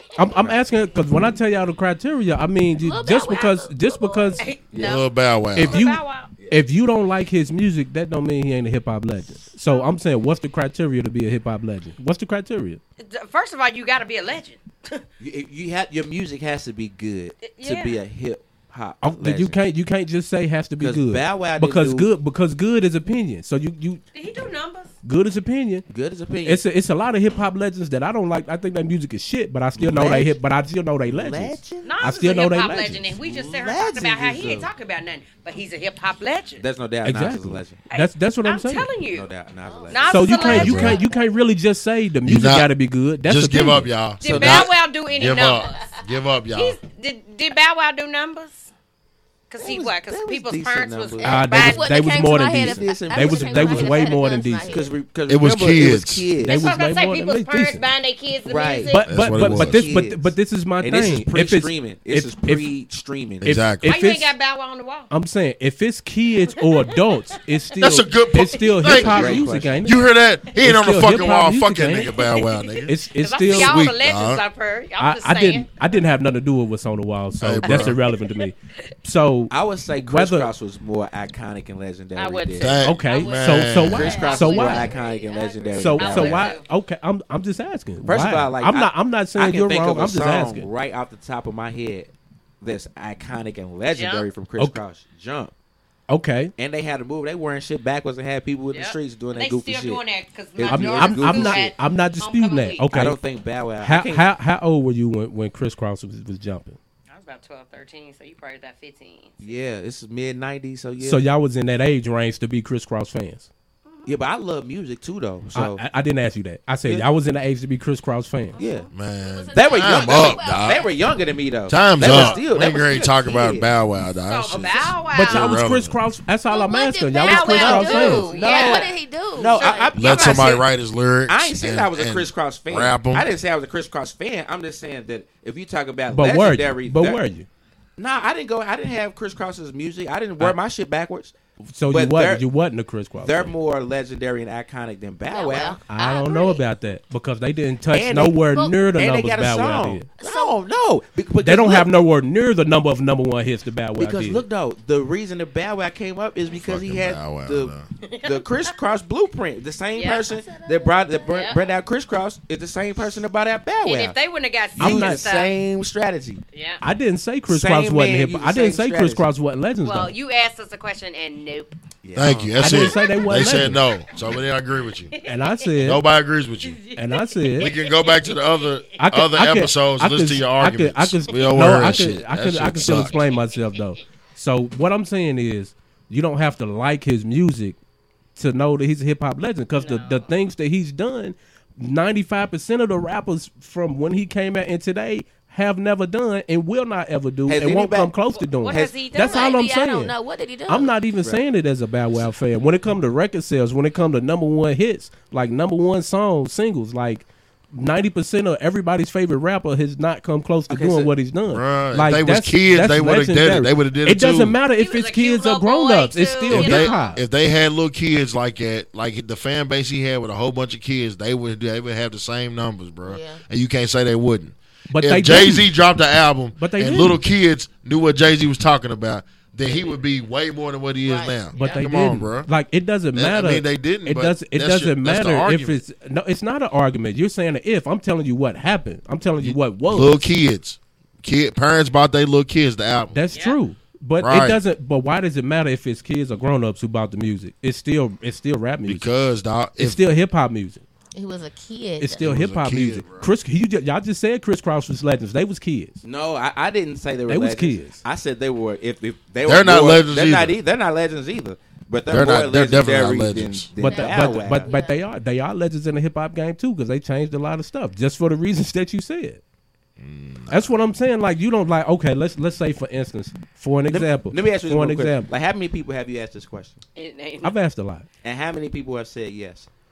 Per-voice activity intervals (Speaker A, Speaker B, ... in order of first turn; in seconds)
Speaker A: 0.1-4.5, 5.5-12.8, 19.0-24.0, 25.0-25.8, 26.4-33.0, 37.0-38.9, 40.1-43.9, 51.2-54.8, 56.4-57.8, 58.9-62.7, 63.4-64.3, 65.1-70.0, 70.6-72.1, 72.8-73.8, 75.0-80.5, 82.8-84.9, 85.8-90.7, 96.1-96.5, 100.7-103.2, 103.8-106.8, 111.0-113.5, 115.5-118.6, 125.1-128.3, 136.1-137.5, 141.7-143.5, 145.9-150.1, 151.4-154.4, 164.8-165.3, 166.8-170.1, 172.6-173.8, 175.2-176.0, 176.9-177.7, 179.0-187.8, 188.3-200.1, 200.7-217.2, 224.9-225.7, 226.6-227.2, 231.6-240.3, 243.1-249.2, 249.8-250.8, 252.0-256.0, 257.3-258.0, 263.8-269.4, 270.5-275.3, 277.4-278.1
Speaker B: 0.3-0.6, 15.2-19.6, 20.8-22.1, 25.9-26.6, 29.7-30.4, 31.1-34.7, 36.6-37.8, 39.1-40.5, 44.2-44.7, 49.6-51.8, 52.5-56.6, 58.4-63.5, 68.9-69.8, 79.5-82.8, 83.9-86.5, 88.0-95.5, 96.6-100.0, 100.5-101.7, 102.9-104.3, 109.4-111.3, 114.0-115.8, 118.6-118.9, 119.5-123.7, 127.8-130.7, 131.3-137.2, 138.0-141.3, 141.9-142.4, 143.2-145.8, 147.9-151.9, 154.0-164.2, 164.8-166.4, 167.5-169.3, 172.0-172.7, 197.5-198.1, 198.7-199.0, 210.7-211.1, 256.0-264.7, 273.9-276.8, 278.2-279.7
Speaker C: 2.7-4.5, 39.6-41.5, 51.2-54.9, 84.1-86.4, 119.1-121.2, 122.0-122.5, 126.5-129.9, 145.3-146.6, 148.5-148.8, 150.2-150.6, 160.2-161.7, 199.1-200.9, 223.0-223.4, 231.0-231.8, 251.1-252.2, 263.8-265.0
Speaker D: 4.4-5.0, 5.7-6.3, 13.0-15.0, 17.4-18.0, 24.1-24.9, 31.8-36.6, 37.9-39.3, 39.9-41.0, 44.2-46.0, 46.5-48.7, 49.5-51.7, 56.4-59.1, 63.8-65.1, 66.6-67.4, 68.7-69.1, 72.1-76.0, 77.7-78.5, 82.1-86.6, 93.9-94.3, 98.7-102.8, 107.1-109.5, 113.8-114.2, 118.5-118.9, 124.2-125.5, 127.2-128.9, 129.5-130.6, 158.0-158.8, 159.9-160.2, 161.3-161.6, 163.8-165.5, 166.5-166.8, 169.8-171.8, 172.7-173.2, 175.1-175.7, 176.6-179.0, 182.8-183.8, 189.8-190.3, 198.3-199.7, 214.7-217.2, 243.3-243.6, 276.9-277.6
Speaker E: 4.7-5.9, 40.5-41.0, 42.2-42.7, 43.2-46.8, 55.3-56.3, 59.0-59.9, 63.4-63.9, 67.8-72.9, 73.4-74.4, 77.4-78.0, 82.6-84.2, 118.9-120.8, 121.7-126.0, 129.9-133.3, 156.6-157.9, 172.1-175.2, 175.8-176.8, 177.6-183.2, 211.5-214.6, 216.5-232.5, 233.1-235.8, 239.4-243.2, 244.2-244.6, 248.9-250.0, 252.2-253.3, 259.4-260.6, 262.1-263.7, 270.0-270.7